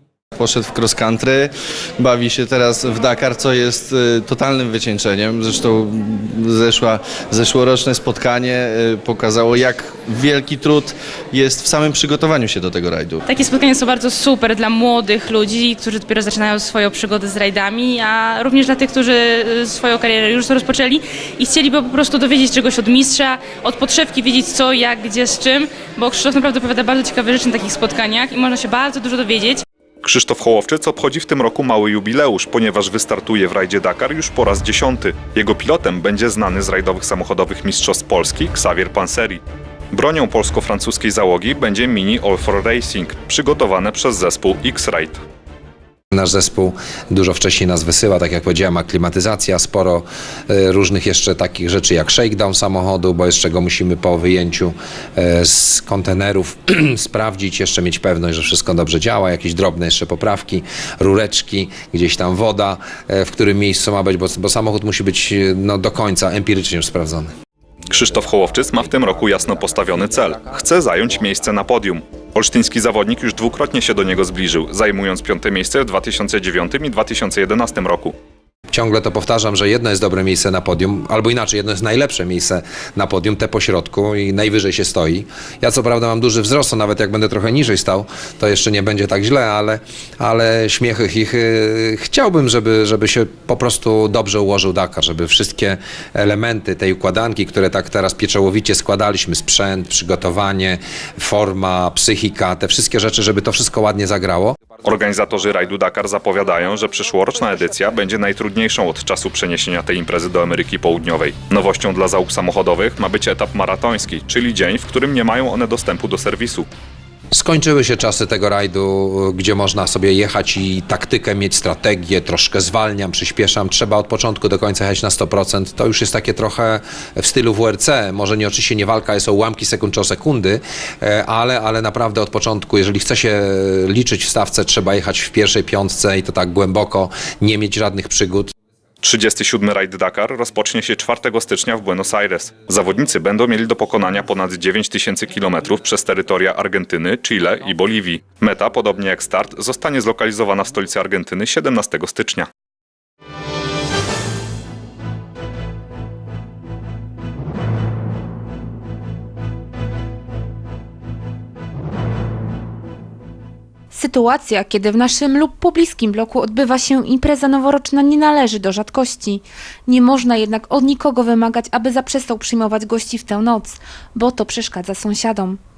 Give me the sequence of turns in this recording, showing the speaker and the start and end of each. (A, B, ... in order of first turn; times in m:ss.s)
0:00.4-0:13.2 A
0:13.3-0:29.6 B
0:30.0-0:39.4 C
0:39.9-0:45.2 C
0:46.1-1:07.3 D
1:07.9-1:18.1 C
1:18.7-1:44.6 D
1:44.8-1:56.7 C
1:57.3-2:18.5 D
2:19.0-2:32.5 C
2:43.9-2:55.6 E